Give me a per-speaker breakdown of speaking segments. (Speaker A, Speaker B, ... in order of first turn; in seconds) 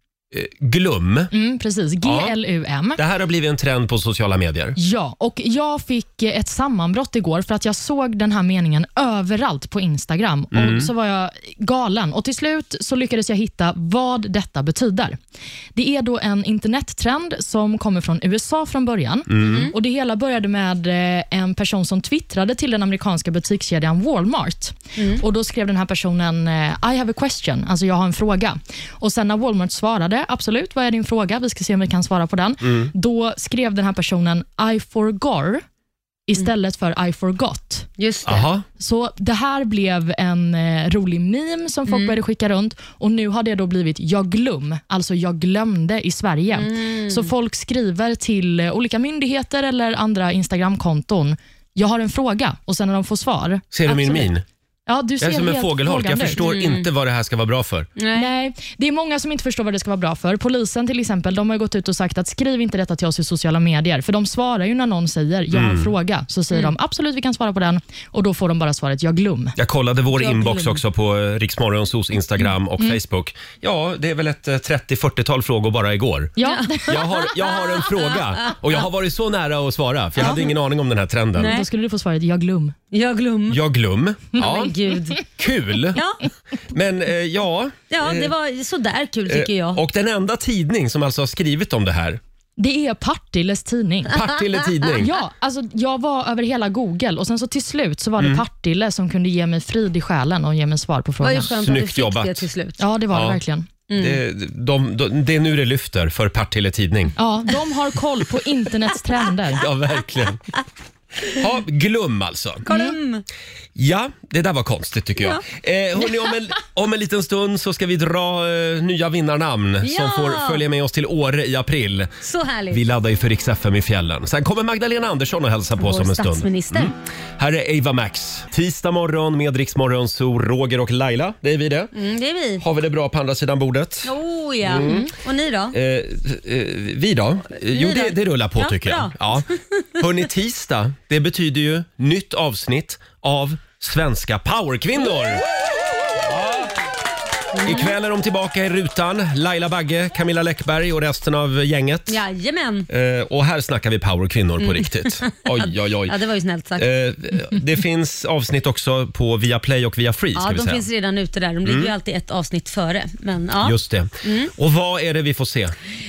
Speaker A: 0.3-1.3, 2.0-2.3, 3.0-4.8, 10.5-10.9, 19.3-19.7, 32.6-32.9, 38.3-38.6, 53.7-54.4, 55.2-57.9, 65.5-65.9, 69.6-81.5, 83.5-84.7, 85.3-86.0, 86.7-88.3, 89.3-92.2, 94.1-95.1, 101.6-102.5, 103.1-103.4, 104.0-107.1, 109.6-110.4, 111.3-112.6, 113.8-122.1, 122.7-131.9, 132.6-134.1, 134.6-135.1, 135.7-139.5, 140.0-145.4, 146.2-146.7, 147.6-152.2, 152.9-156.1, 156.8-160.8, 161.6-161.9, 163.6-165.7
Speaker B: 1.3-3.0, 4.8-15.2, 15.7-35.6, 36.3-37.9, 38.8-54.3, 54.9-56.4, 58.1-69.5, 76.4-77.2, 81.4-82.8, 92.6-94.2, 95.0-101.6, 102.8-103.7, 107.2-109.7, 112.7-113.0
Speaker C: 19.4-19.7, 25.0-25.2, 38.0-38.5, 41.9-42.2, 46.5-47.3, 56.4-56.9, 58.0-58.3, 70.2-70.8, 76.4-77.0, 77.5-78.2, 80.2-80.5, 81.4-81.7, 82.9-83.6, 84.4-85.2, 85.9-86.2, 87.9-89.8, 101.2-102.8, 103.9-104.2, 112.6-113.2, 119.8-120.6, 122.2-122.8, 125.8-126.9, 131.9-132.6, 134.0-135.7, 137.7-139.8, 147.5-147.9, 152.1-152.9, 154.6-156.9, 160.3-164.5